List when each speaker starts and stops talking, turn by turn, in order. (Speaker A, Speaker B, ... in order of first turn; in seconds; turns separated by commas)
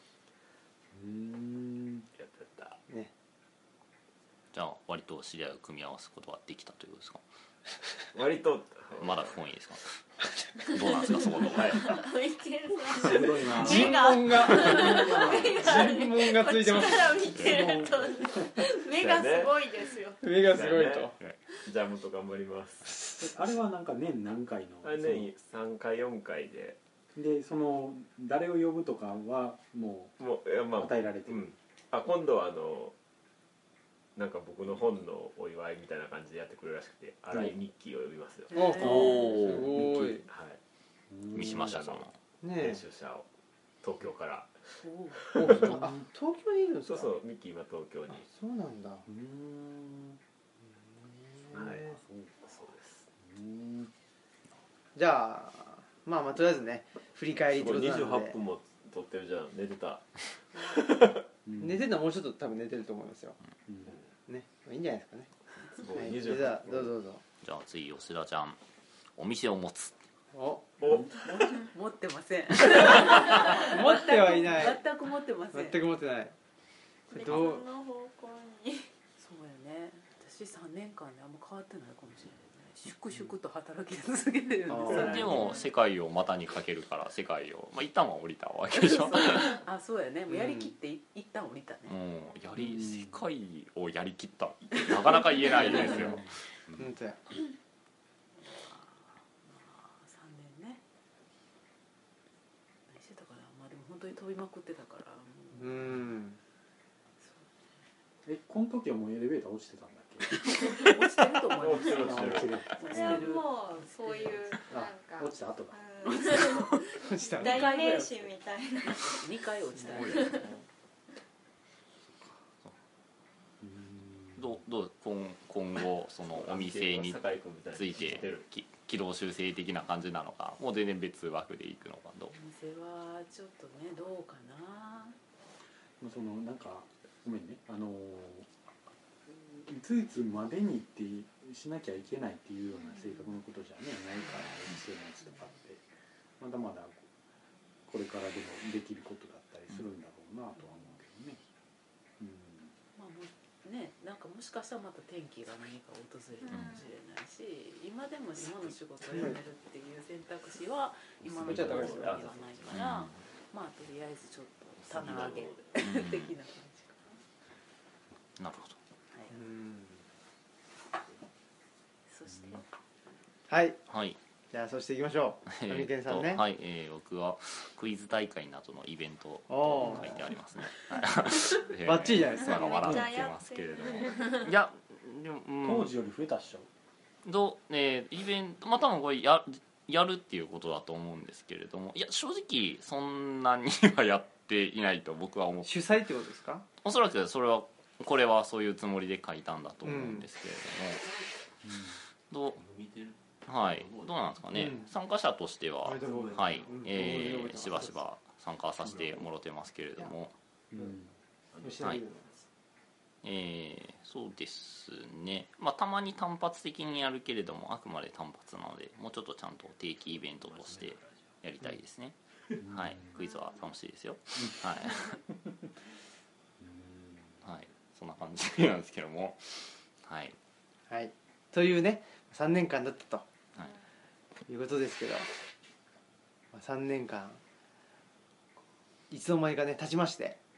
Speaker A: 0.9-2.1, Speaker B: 2.1-2.8, Speaker C: 4.5-7.2, Speaker B: 8.1-9.3, Speaker C: 9.0-9.9, Speaker C: 10.7-11.9, Speaker D: 10.7-20.2, Speaker B: 11.5-11.9, Speaker A: 12.9-15.9, Speaker E: 13.5-17.3, Speaker A: 17.3-18.4, Speaker B: 18.9-19.6, Speaker E: 20.2-21.1, Speaker B: 20.4-23.0, Speaker A: 23.2-25.3, Speaker B: 24.8-26.8, Speaker A: 27.1-30.2, Speaker B: 30.2-32.9, Speaker A: 30.8-31.4, Speaker B: 34.1-38.6, Speaker E: 38.5-40.2, Speaker F: 38.5-39.2, Speaker C: 38.8-39.7, Speaker A: 38.8-40.2, Speaker B: 40.3-40.6, Speaker A: 41.1-41.8, Speaker C: 41.3-42.1, Speaker B: 41.6-43.3, Speaker E: 42.4-42.8, Speaker B: 43.8-45.7, Speaker F: 44.9-45.1, Speaker E: 45.3-47.1, Speaker A: 45.4-46.1, Speaker B: 46.8-48.3, Speaker E: 48.1-49.0, Speaker A: 49.0-50.2, Speaker A: 51.0-52.3, Speaker E: 51.4-52.0, Speaker B: 51.5-51.8, Speaker B: 52.4-53.0, Speaker A: 53.2-53.9, Speaker E: 54.9-58.4, Speaker B: 57.5-61.2, Speaker A: 61.5-61.9, Speaker E: 61.6-63.4, Speaker A: 63.7-63.9, Speaker E: 64.3-65.3, Speaker B: 65.7-66.9, Speaker E: 65.9-67.2, Speaker C: 67.4-68.6, Speaker C: 69.2-70.0, Speaker E: 70.3-70.6, Speaker B: 70.8-71.7, Speaker A: 70.9-71.2, Speaker F: 71.3-75.8, Speaker E: 73.5-74.8, Speaker E: 75.5-76.3, Speaker D: 77.1-78.9, Speaker E: 77.1-77.6, Speaker F: 79.2-85.6, Speaker E: 84.7-85.3, Speaker C: 84.8-89.6, Speaker D: 85.3-85.7, Speaker F: 88.8-92.0, Speaker E: 90.3-90.7, Speaker C: 91.9-96.8, Speaker A: 92.6-93.2, Speaker F: 95.5-95.9, Speaker A: 95.9-96.2, Speaker E: 96.8-97.2, Speaker F: 98.3-100.8, Speaker F: 102.9-105.9, Speaker E: 105.5-106.4, Speaker F: 107.2-107.5, Speaker A: 108.2-110.7, Speaker F: 110.4-114.6, Speaker B: 111.5-113.1, Speaker A: 111.8-113.2, Speaker D: 112.8-119.3, Speaker A: 114.7-115.8, Speaker F: 116.0-118.3, Speaker E: 117.0-117.7, Speaker F: 118.8-120.5, Speaker C: 119.9-120.2, Speaker D: 119.9-120.5, Speaker A: 123.6-124.6, Speaker C: 124.3-132.3, Speaker B: 126.3-128.4, Speaker F: 132.3-135.2, Speaker A: 136.0-138.5, Speaker A: 139.2-145.8, Speaker A: 146.4-147.1, Speaker A: 147.9-151.4, Speaker F: 150.6-150.9, Speaker A: 152.2-152.7, Speaker F: 152.9-167.2, Speaker D: 156.4-156.9, Speaker E: 159.1-159.4, Speaker B: 161.2-162.7, Speaker E: 161.4-162.2, Speaker C: 162.7-163.2, Speaker B: 164.8-165.7, Speaker C: 165.8-166.3, Speaker C: 168.4-168.8, Speaker F: 169.1-169.4, Speaker E: 169.3-170.0, Speaker F: 172.1-172.6, Speaker A: 172.3-172.6, Speaker E: 173.5-173.8, Speaker C: 173.9-174.2, Speaker E: 174.5-176.4, Speaker C: 175.5-185.9, Speaker E: 179.5-180.2, Speaker E: 181.8-183.0, Speaker D: 182.3-184.5, Speaker A: 185.6-186.7, Speaker C: 187.2-195.8, Speaker E: 195.6-196.6, Speaker C: 196.8-201.1, Speaker E: 199.8-200.2, Speaker A: 201.6-202.0, Speaker C: 202.3-202.6, Speaker B: 202.6-204.2, Speaker C: 203.4-210.3, Speaker E: 204.5-204.9, Speaker E: 205.8-208.0, Speaker B: 206.0-207.4, Speaker A: 210.7-211.1, Speaker B: 211.5-211.9, Speaker E: 211.6-212.3, Speaker C: 213.2-225.2, Speaker B: 220.4-221.2, Speaker A: 222.6-223.2, Speaker D: 223.2-223.6, Speaker A: 225.1-225.5, Speaker A: 226.6-227.4, Speaker C: 227.4-230.3, Speaker E: 230.9-233.2, Speaker E: 234.5-235.3, Speaker E: 236.5-237.4, Speaker E: 239.1-240.4